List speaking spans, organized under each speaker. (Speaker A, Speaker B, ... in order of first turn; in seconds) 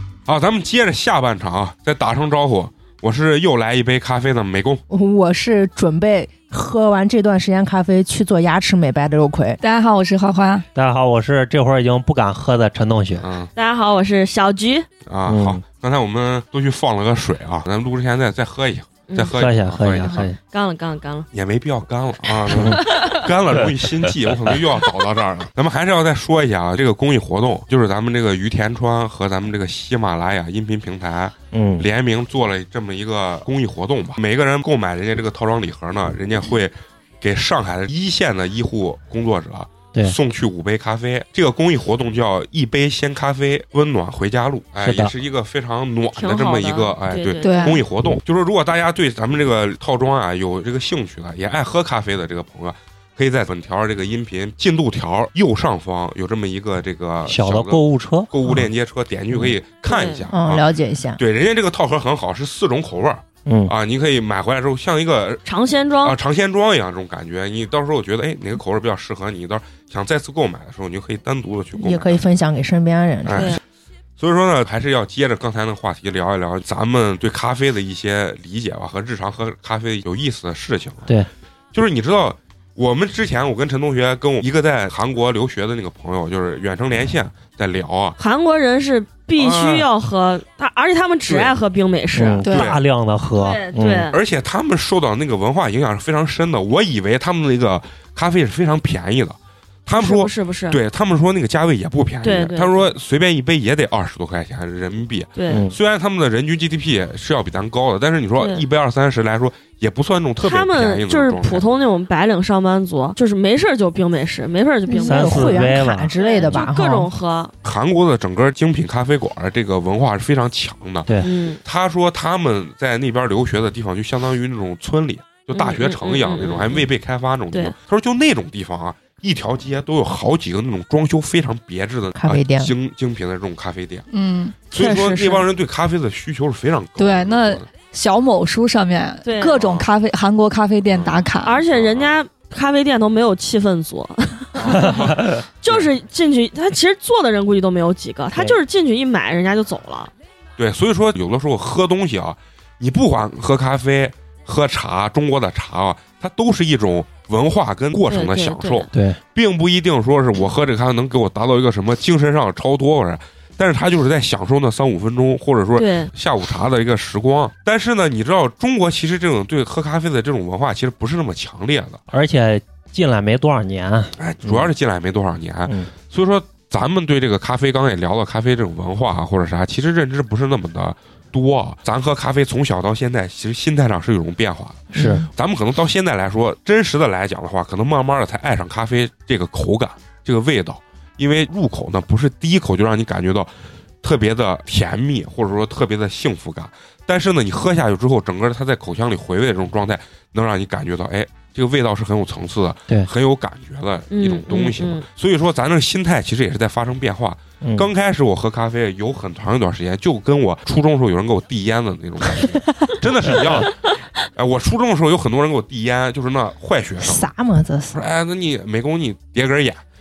Speaker A: 0.3-4.8, 13.2-13.5, 15.1-20.2, 21.3-65.4, 66.0-72.2, 73.2-73.6, 74.2-81.1, 81.7-88.2, 89.4-89.9, 91.3-91.6, 92.5-92.8, 94.1-111.8, 117.6-121.1, 121.6-134.1, 134.7-137.7, 140.9-142.1, 144.6-145.9, 150.6-172.0, 174.2-193.5, 194.0-217.3, 217.9-219.8
Speaker B: 4.9-9.6, 60.3-61.2, 71.8-73.6, 114.9-117.1, 132.2-132.7, 184.9-185.3, 217.0-218.0
Speaker C: 9.6-10.7, 47.4-47.8, 134.1-134.6, 137.0-141.6
Speaker D: 10.8-13.3, 15.3-15.6, 19.3-20.4, 22.5-22.8, 31.5-31.9, 44.8-45.1, 57.3-58.7, 63.5-63.7, 92.2-94.1, 105.5-105.8, 115.0-116.7, 158.9-159.2, 172.1-174.7, 184.9-185.2, 207.6-207.9
Speaker E: 13.6-14.9, 19.1-19.3, 19.9-21.3, 22.6-23.3, 24.8-25.1, 46.1-47.8, 59.9-60.3, 65.5-66.2, 73.3-73.6, 88.2-92.5, 93.3-94.2, 100.0-100.8, 102.2-103.0, 105.4-105.7, 108.4-108.7, 110.4-117.5, 121.2-121.6, 125.5-126.9, 134.7-135.5, 139.2-139.8, 141.4-145.1, 145.6-150.1, 158.1-158.9, 165.8-166.1, 204.1-205.1